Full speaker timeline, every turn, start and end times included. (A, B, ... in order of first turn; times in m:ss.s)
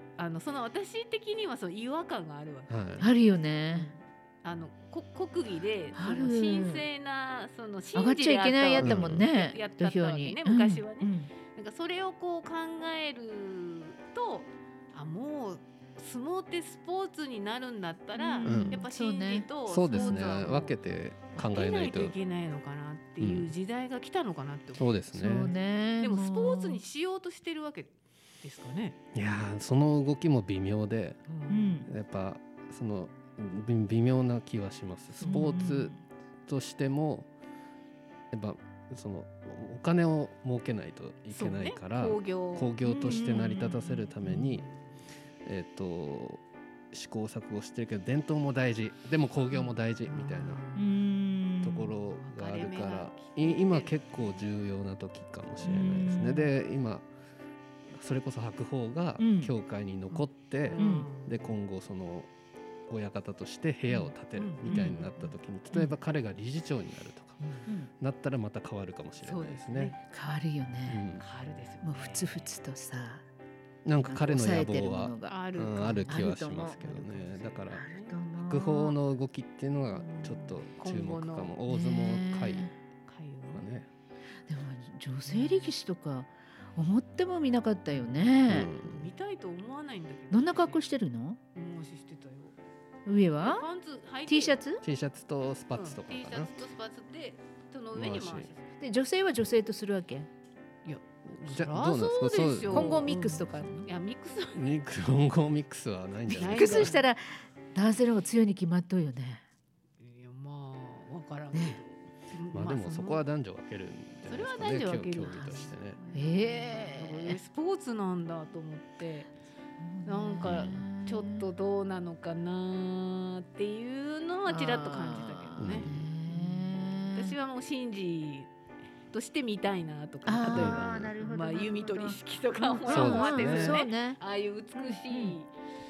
0:00.2-0:02.8 A
0:02.7-0:03.0 B
0:03.0-0:03.9 C
0:03.7-0:20.8 A
0:05.9-0:06.8 C
0:07.9-0:11.3 C
0:08.8-0:09.2 B
0:18.1-0:20.2 C
0:18.4-0:18.8 B
0:19.6-0:22.1 B
0:21.4-0:25.0 A
0:23.2-0:23.5 B
0:24.8-0:25.5 B
0:25.1-0:26.8 C
0:26.0-0:29.0 A
0:29.1-0:31.2 B
0:31.3-0:31.9 A
0:31.5-0:31.9 C
0:31.9-0:35.9 B
0:35.2-0:35.6 A
0:35.2-0:36.0 C
0:36.5-0:37.3 B
0:38.3-0:44.7 B
0:41.3-0:43.3 A
0:42.8-0:44.1 C
0:44.2-0:44.8 A
0:45.4-0:50.6 B
0:49.5-0:51.4 A
0:50.7-0:51.9 C
0:51.6-0:57.1 B
0:52.1-0:54.3 A
0:55.6-0:56.5 C
0:57.9-1:02.3 B
0:59.2-0:59.5 C
1:00.1-1:01.5 A
1:00.8-1:01.1 C
1:02.9-1:07.4 B
1:04.4-1:05.1 A
1:04.6-1:05.0 C
1:07.4-1:07.7 A
1:08.0-1:09.9 B
1:09.2-1:10.0 A
1:10.0-1:11.0 C
1:10.9-1:11.2 B
1:11.2-1:12.5 A
1:11.8-1:13.2 C
1:13.8-1:17.8 B
1:14.0-1:15.4 C
1:15.2-1:18.1 A
1:16.1-1:17.1 C
1:17.7-1:19.0 C
1:18.4-1:22.7 B
1:19.9-1:21.5 A
1:21.7-1:22.7 C
1:23.1-1:23.6 A
1:23.5-1:23.9 B
1:24.5-1:28.7 C
1:25.3-1:25.7 A
1:27.9-1:30.8 A
1:28.5-1:29.0 B
1:30.3-1:31.4 C
1:31.5-1:32.6 A
1:33.0-1:33.6 C
1:33.4-1:34.6 A
1:34.3-1:34.8 C
1:34.8-1:36.5 B
1:35.7-1:38.7 A
1:37.9-1:38.5 B
1:38.8-1:40.3 C
1:40.8-1:44.6 A
1:41.3-1:43.1 B
1:42.7-1:43.9 C
1:44.5-1:46.9 B
1:46.3-1:47.1 A
1:46.4-1:49.4 C
1:50.0-1:53.2 A
1:51.5-1:51.8 C
1:52.5-1:56.0 B
1:54.2-1:59.3 A
1:55.2-1:57.4 C
1:59.8-2:01.5 C
2:00.0-2:08.5 A
2:00.4-2:00.8 B
2:04.4-2:07.4 C
2:05.6-2:06.1 B
2:09.1-2:15.5 A
2:10.2-2:14.2 C
2:10.5-2:11.1 B
2:12.9-2:13.8 B
2:14.8-2:15.3 C